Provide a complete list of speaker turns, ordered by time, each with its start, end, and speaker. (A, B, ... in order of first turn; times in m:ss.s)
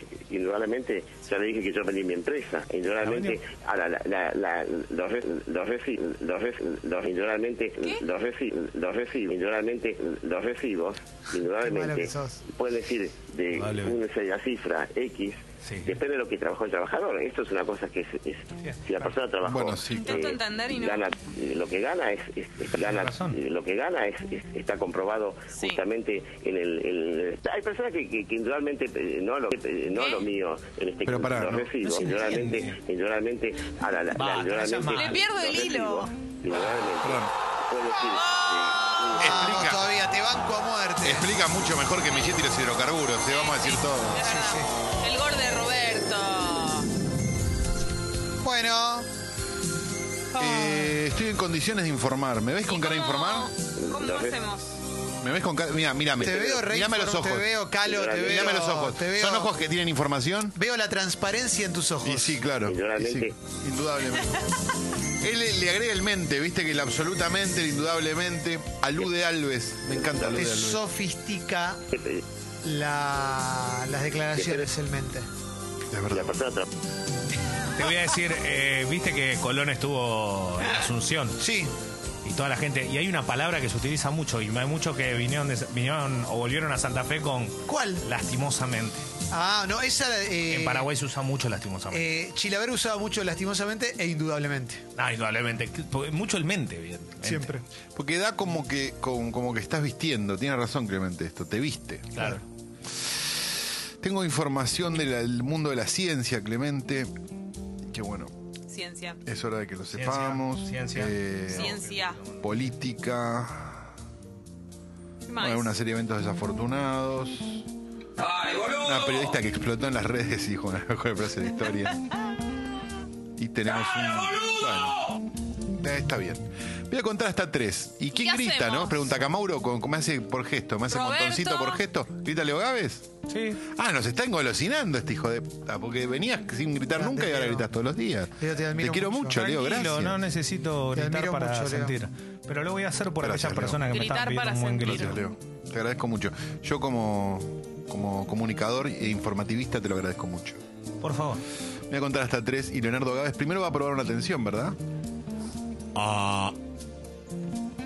0:00.2-0:39.4 A
0:03.0-0:03.4 B
0:11.6-0:12.4 C
0:13.5-0:14.0 B
0:15.6-0:16.0 B
0:18.6-0:19.2 B
0:19.4-0:20.2 D
0:19.9-0:21.0 E
0:22.8-0:23.4 B
0:30.0-0:30.2 E
0:31.0-0:31.7 D
0:31.8-0:32.8 B
0:34.1-0:35.4 B
0:35.0-0:36.1 E
0:37.0-0:37.3 D
0:39.1-0:41.3 C
0:39.2-0:39.9 D
0:41.0-0:44.2 D
0:43.2-0:46.9 E
0:44.2-0:44.7 C
0:48.4-0:49.1 C
0:50.4-0:53.5 D
0:50.4-0:50.9 B
0:52.7-0:54.8 E
0:53.8-0:54.4 A
0:55.2-0:57.5 D
0:56.2-0:56.6 A
0:56.2-0:59.5 C
0:57.8-0:58.4 A
0:58.2-1:00.6 D
1:00.5-1:02.4 C
1:02.0-1:04.6 D
1:02.6-1:03.4 A
1:05.2-1:10.8 D
1:09.9-1:10.4 A
1:10.3-1:11.8 C
1:11.9-1:12.2 A
1:12.6-1:15.3 C
1:14.4-1:14.7 A
1:15.9-1:16.4 D
1:16.1-1:16.7 A
1:17.7-1:21.4 B
1:21.4-1:21.7 C
1:22.2-1:29.1 B
1:27.6-1:28.0 C
1:29.3-1:30.9 C
1:30.5-1:32.1 B
1:31.9-1:34.8 C
1:35.0-1:37.5 B
1:37.2-1:37.6 C
1:38.0-1:42.2 D
1:42.1-1:42.4 B
1:44.0-1:47.1 D
1:47.9-1:48.3 D
1:48.7-1:49.2 E
1:49.2-1:51.8 D
1:49.9-1:52.4 B
1:51.6-1:52.2 E
1:52.4-1:53.9 D
1:55.3-1:55.7 E
1:55.4-1:57.6 D
1:58.7-2:02.0 D
2:03.4-2:05.2 D
2:05.7-2:13.1 D
2:08.2-2:09.0 E
2:10.9-2:11.8 E
2:13.3-2:13.6 B
2:13.7-2:20.2 D
2:17.0-2:17.6 C
2:18.4-2:19.5 C
2:19.4-2:25.2 B
2:20.9-2:21.9 C
2:23.2-2:23.8 D
2:23.9-2:25.1 E
2:24.8-2:30.6 D
2:31.0-2:31.4 B
2:31.9-2:34.8 D
2:35.9-2:36.6 B